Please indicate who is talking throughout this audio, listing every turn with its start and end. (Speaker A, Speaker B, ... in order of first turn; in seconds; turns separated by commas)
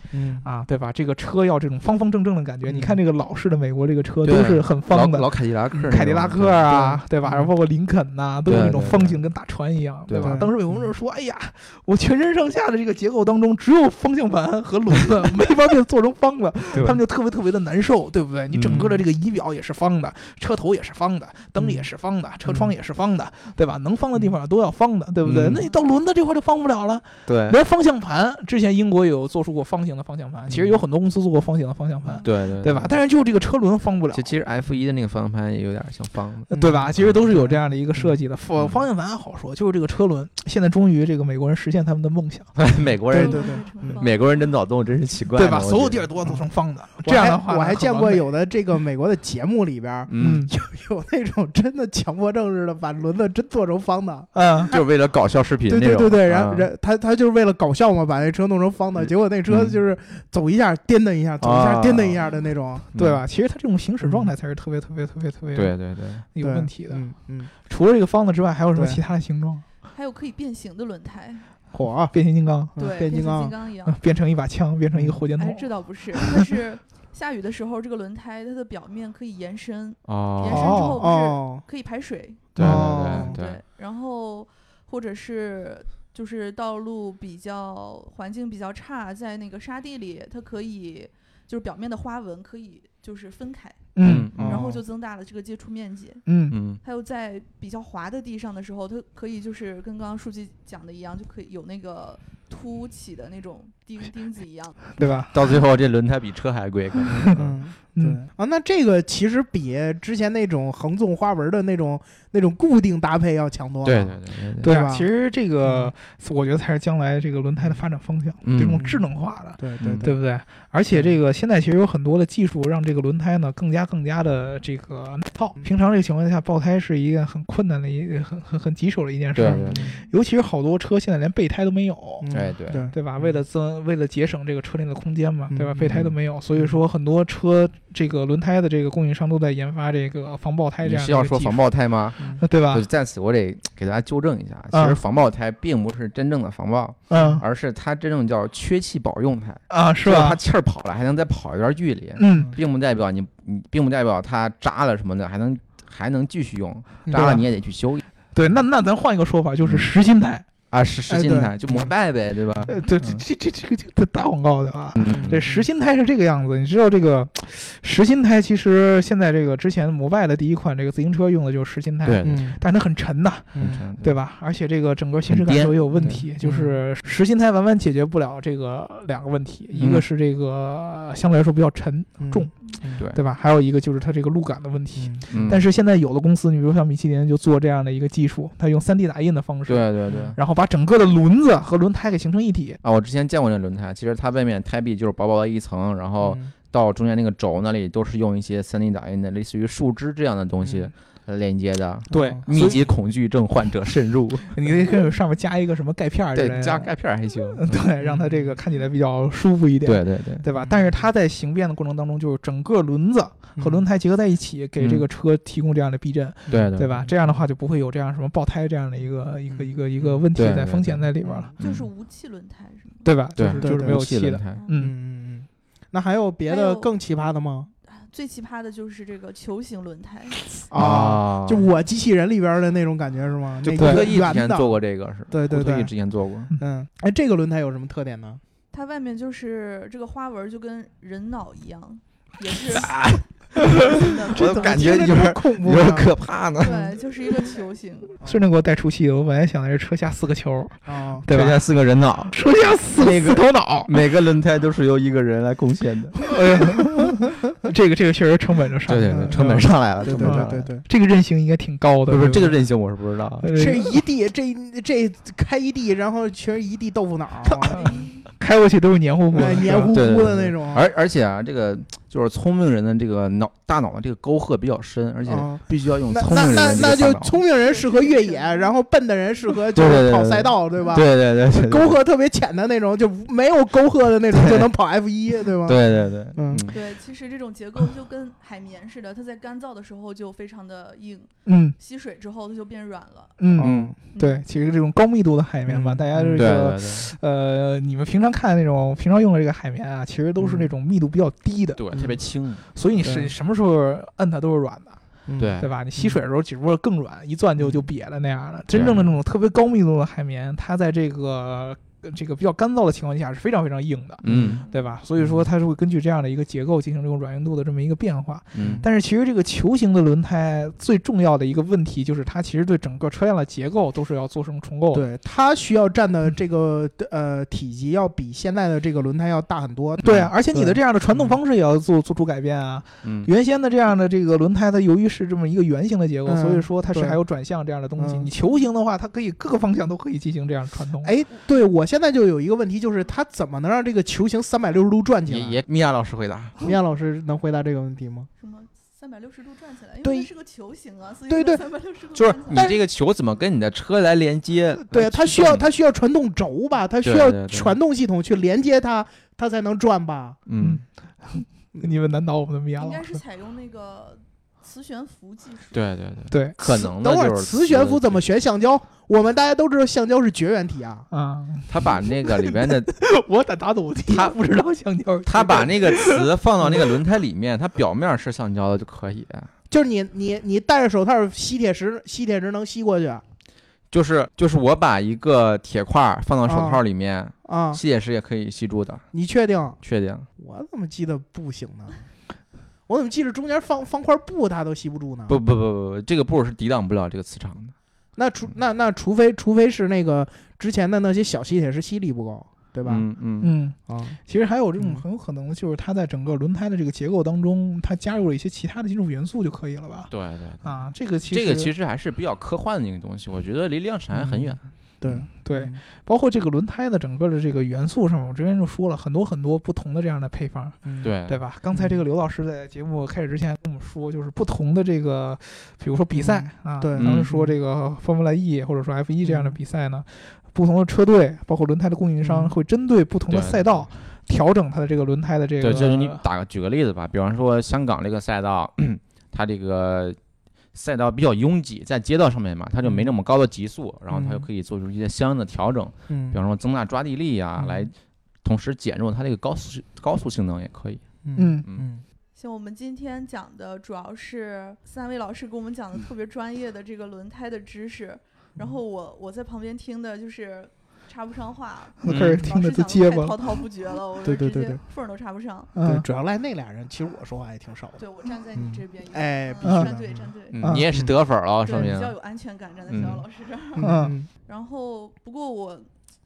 Speaker A: 0.1-0.5, Speaker B: 0.4-34.3, Speaker A: 2.7-3.0, Speaker C: 4.2-6.9, Speaker A: 6.7-7.5, Speaker C: 8.5-9.2, Speaker C: 10.1-10.4, Speaker A: 10.2-10.9, Speaker C: 16.7-17.0, Speaker C: 18.5-19.0, Speaker C: 25.2-25.6, Speaker C: 27.3-27.6, Speaker C: 32.2-33.0, Speaker C: 34.1-37.2, Speaker B: 36.5-42.5, Speaker A: 36.5-38.1, Speaker C: 38.6-38.8, Speaker C: 42.6-46.1, Speaker A: 43.1-44.0, Speaker D: 43.1-44.5, Speaker B: 45.4-48.3, Speaker A: 47.0-54.8, Speaker C: 50.1-50.5, Speaker B: 50.2-50.5, Speaker B: 54.3-54.7, Speaker C: 54.7-56.7, Speaker A: 55.7-62.9, Speaker C: 59.0-59.8, Speaker C: 61.4-62.2, Speaker C: 62.9-63.2, Speaker B: 63.0-65.8, Speaker A: 64.0-64.3, Speaker C: 65.5-66.2, Speaker B: 66.3-69.7, Speaker A: 66.4-67.5, Speaker A: 68.8-69.0, Speaker D: 69.9-71.5, Speaker A: 71.7-72.2, Speaker B: 72.1-73.3, Speaker A: 72.7-73.5, Speaker D: 72.8-74.0, Speaker B: 73.8-76.4, Speaker A: 74.9-75.2, Speaker D: 75.4-96.3, Speaker C: 80.1-80.9, Speaker B: 80.5-81.0, Speaker A: 81.0-81.6, Speaker C: 82.5-83.6, Speaker A: 82.6-83.4, Speaker B: 82.6-82.9, Speaker B: 94.0-94.3, Speaker C: 94.0-94.7, Speaker A: 94.4-94.8, Speaker B: 96.3-96.6, Speaker C: 96.5-96.8, Speaker D: 96.8-104.8, Speaker B: 105.0-105.3, Speaker C: 105.3-107.6, Speaker A: 107.4-115.1, Speaker C: 113.8-114.7, Speaker B: 114.6-132.3, Speaker A: 115.6-115.9, Speaker C: 118.4-118.8, Speaker A: 118.7-120.1, Speaker C: 119.8-120.1, Speaker C: 129.3-129.9, Speaker A: 129.4-130.0, Speaker A: 132.2-133.4, Speaker C: 132.3-132.9, Speaker B: 132.8-141.6, Speaker A: 135.5-136.8, Speaker C: 140.8-158.0, Speaker B: 142.4-142.9, Speaker B: 144.7-145.0, Speaker B: 147.1-147.4, Speaker A: 147.1-147.4, Speaker B: 149.7-150.4, Speaker B: 152.2-152.5, Speaker A: 157.1-157.4, Speaker B: 157.1-157.5, Speaker B: 158.3-160.4, Speaker C: 159.6-159.9, Speaker C: 160.7-163.2, Speaker A: 161.1-161.8, Speaker B: 162.7-192.8, Speaker C: 165.0-165.4, Speaker A: 165.1-165.7, Speaker C: 172.0-172.4, Speaker A: 172.2-172.6, Speaker A: 173.5-173.8, Speaker C: 173.6-174.2, Speaker C: 175.3-176.2, Speaker A: 175.9-176.8, Speaker C: 179.8-180.1, Speaker A: 182.2-183.0, Speaker A: 184.9-185.2, Speaker C: 185.3-185.6, Speaker C: 189.7-190.4, Speaker C: 192.8-204.6, Speaker A: 196.2-196.5, Speaker A: 200.6-200.9, Speaker A: 202.1-202.5, Speaker B: 202.1-202.9, Speaker B: 204.5-206.9, Speaker C: 206.3-207.8, Speaker B: 207.6-221.5, Speaker A: 208.0-208.6, Speaker C: 209.8-210.5, Speaker A: 210.6-210.9, Speaker A: 213.6-213.8, Speaker C: 214.8-215.1, Speaker C: 216.5-217.1, Speaker A: 219.5-220.2, Speaker C: 220.3-221.1, Speaker A: 221.2-221.5, Speaker D: 221.6-223.1, Speaker C: 221.6-221.9, Speaker B: 223.0-224.9, Speaker C: 223.3-224.7, Speaker A: 223.4-224.0, Speaker A: 224.8-227.7, Speaker D: 226.5-226.9, Speaker D: 227.9-230.5, Speaker A: 230.7-234.8, Speaker C: 230.7-231.7, Speaker C: 233.6-236.5, Speaker B: 233.8-234.2, Speaker A: 235.3-235.9, Speaker A: 236.6-238.4, Speaker D: 238.7-244.9, Speaker B: 242.7-244.7, Speaker C: 244.3-246.9, Speaker A: 244.3-246.1, Speaker D: 246.6-248.2, Speaker B: 248.2-251.6, Speaker A: 250.8-251.3, Speaker C: 251.3-256.3, Speaker B: 252.3-253.9, Speaker B: 256.2-262.6, Speaker C: 258.9-260.7, Speaker A: 260.0-260.8, Speaker C: 262.1-263.5, Speaker B: 263.4-263.9, Speaker A: 263.5-267.8, Speaker B: 267.5-270.0, Speaker D: 267.7-268.3, Speaker A: 269.3-270.9, Speaker C: 269.9-277.4, Speaker A: 275.3-286.7, Speaker D: 276.3-278.7, Speaker C: 279.8-282.0, Speaker C: 284.3-284.7, Speaker C: 285.6-286.8, Speaker D: 286.7-293.4, Speaker B: 291.5-291.8, Speaker B: 293.4-302.1, Speaker A: 293.6-293.9, Speaker C: 293.6-293.9, Speaker D: 294.1-294.4, Speaker A: 295.7-296.6, Speaker C: 296.4-297.1, Speaker A: 300.4-300.7, Speaker C: 301.8-302.6, Speaker B: 302.7-305.0, Speaker A: 303.0-303.3, Speaker A: 305.3-306.2, Speaker C: 305.4-305.7, Speaker B: 305.6-325.1, Speaker A: 307.6-307.8, Speaker C: 308.7-309.1, Speaker C: 314.2-314.7, Speaker A: 314.3-314.6, Speaker C: 318.5-318.9, Speaker A: 318.6-318.9, Speaker A: 324.9-331.4, Speaker B: 330.0-341.1, Speaker C: 330.0-330.3, Speaker C: 333.0-333.3, Speaker A: 336.3-337.2, Speaker A: 338.0-338.3, Speaker A: 341.0-345.6, Speaker C: 345.3-346.6, Speaker A: 346.6-348.3, Speaker D: 348.4-352.8, Speaker A: 350.0-350.3, Speaker A: 351.3-351.6, Speaker C: 352.1-355.7, Speaker A: 352.5-352.8, Speaker A: 354.9-360.4, Speaker C: 357.0-357.8, Speaker C: 360.5-360.8, Speaker B: 360.6-363.2, Speaker D: 362.8-365.8, Speaker C: 365.7-368.2, Speaker B: 366.3-366.6, Speaker A: 366.7-371.1, Speaker B: 371.1-376.3, Speaker C: 371.7-372.9, Speaker C: 374.1-374.4, Speaker C: 375.2-379.5, Speaker A: 379.7-383.2, Speaker C: 383.9-389.1, Speaker A: 386.5-386.8, Speaker A: 387.4-387.8, Speaker A: 389.1-389.8, Speaker C: 389.8-390.3, Speaker A: 390.4-392.1, Speaker A: 392.9-395.4, Speaker C: 395.3-397.7, Speaker A: 398.2-403.1, Speaker C: 402.9-403.5, Speaker B: 403.4-410.1, Speaker A: 403.9-404.2, Speaker A: 404.8-405.0, Speaker C: 410.1-414.6, Speaker B: 410.6-411.7, Speaker A: 414.1-415.8, Speaker B: 415.4-436.2, Speaker A: 420.9-421.1, Speaker C: 421.0-421.4, Speaker A: 421.7-422.0, Speaker A: 426.1-427.5, Speaker C: 427.0-427.3, Speaker A: 429.2-429.6, Speaker A: 432.2-432.5, Speaker C: 433.3-433.8, Speaker C: 435.6-440.2, Speaker C: 440.7-447.9, Speaker A: 442.8-443.1, Speaker A: 444.1-444.5, Speaker A: 446.1-446.4, Speaker A: 447.6-447.9, Speaker C: 448.4-451.0, Speaker A: 451.2-452.0, Speaker B: 451.4-451.7, Speaker D: 452.4-465.7, Speaker B: 462.0-463.4, Speaker C: 462.1-462.5, Speaker A: 464.2-464.8, Speaker B: 465.7-466.1, Speaker A: 465.8-468.0, Speaker D: 468.0-470.6, Speaker A: 468.6-471.1, Speaker B: 469.6-469.9, Speaker C: 470.5-472.1, Speaker B: 470.6-470.9, Speaker D: 471.6-475.9, Speaker C: 472.9-473.2, Speaker A: 472.9-473.2, Speaker A: 473.8-474.3, Speaker B: 473.8-474.1